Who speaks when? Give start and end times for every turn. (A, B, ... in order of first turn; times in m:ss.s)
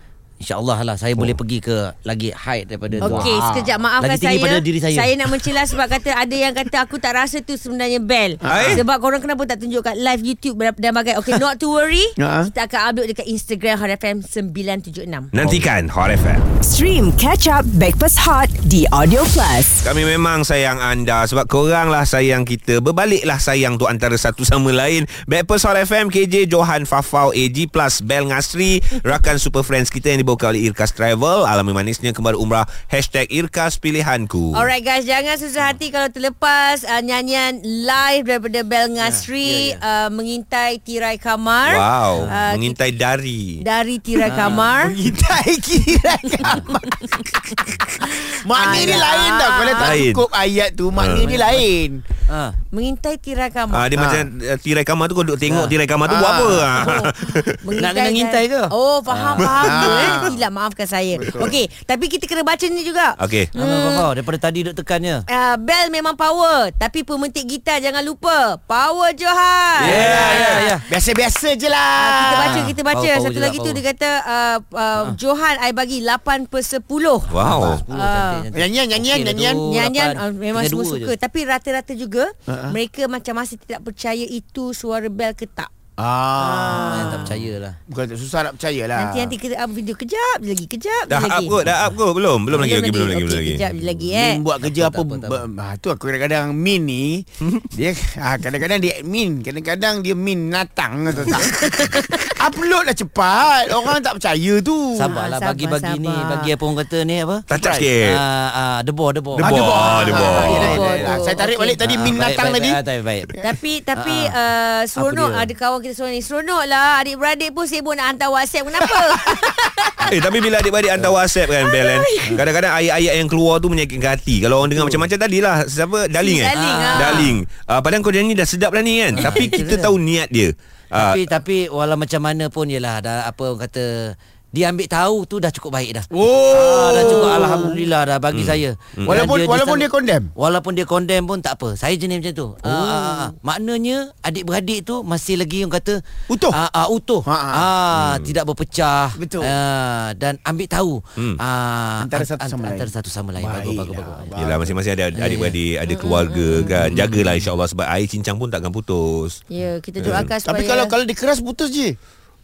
0:00.4-0:03.4 A
0:03.0-0:03.8 B
0:03.0-0:15.3 C
0:04.0-0:05.4 A
0:08.4-0:08.8 B
0:08.5-0:08.8 D
0:12.2-0:12.5 B
0:15.3-0:16.4 D
0:16.6-0:19.8 E
0:19.8-0:34.7 D
0:34.5-0:42.8 C
0:39.0-0:39.8 A
0:41.6-0:43.6 D
0:43.6-0:45.0 C
0:44.2-0:44.8 A
0:44.7-0:52.0 B
0:48.5-0:49.9 C
0:48.6-0:49.1 A
0:49.8-0:50.2 D
0:50.9-0:51.4 D
0:51.2-0:51.5 A
0:52.3-0:52.6 A
0:52.7-0:53.9 C
0:53.7-0:57.8 D
0:53.9-0:54.3 B
0:55.4-0:55.7 A
0:56.0-0:56.8 B
0:56.8-1:04.1 C
0:57.8-1:00.3 A
0:59.4-1:00.3 D
0:59.4-1:00.4 B
1:01.2-1:01.6 B
1:03.2-1:03.5 D
1:03.5-1:05.2 A
1:05.3-1:10.8 C
1:09.8-1:10.8 A
1:09.8-1:12.7 B
1:12.0-1:17.3 C
1:12.3-1:13.8 A
1:17.3-1:17.8 D
1:17.3-1:21.1 A
1:17.5-1:17.8 B
1:17.9-1:18.4 C
1:18.5-1:19.6 B
1:19.6-1:25.7 C
1:22.5-1:22.8 B
1:26.0-1:27.4 B
1:26.4-1:27.8 A
1:26.7-1:27.3 C
1:27.9-1:29.4 B
1:29.0-1:31.6 C
1:31.1-1:33.7 D
1:32.6-1:34.4 C
1:34.0-1:45.2 B
1:34.6-1:35.4 A
1:41.6-1:42.2 C
1:45.0-1:47.5 A
1:45.1-1:46.5 C
1:47.5-1:48.2 D
1:47.5-1:47.9 B
1:48.0-1:51.2 A
1:49.4-1:52.8 B
1:49.4-1:50.7 D
1:50.4-1:51.8 C
1:51.8-1:53.3 A
1:53.4-2:00.1 C
1:54.0-1:54.3 A
1:55.0-1:55.5 A
2:00.0-2:11.2 D
2:01.5-2:02.3 C
2:04.7-2:05.0 A
2:06.2-2:07.1 C
2:06.5-2:07.4 A
2:09.1-2:10.0 A
2:10.9-2:34.3 A
2:16.1-2:17.9 B
2:18.3-2:19.2 D
2:19.1-2:20.3 B
2:22.6-2:23.3 B
2:26.3-2:26.6 B
2:27.2-2:27.7 B
2:27.9-2:28.4 D
2:29.1-2:29.6 B
2:32.0-2:34.8 B
2:34.4-2:39.4 D
2:35.1-2:35.6 A
2:35.8-2:36.8 C
2:36.8-2:37.1 B
2:39.5-2:40.9 C
2:40.0-2:40.3 D
2:40.2-2:42.0 B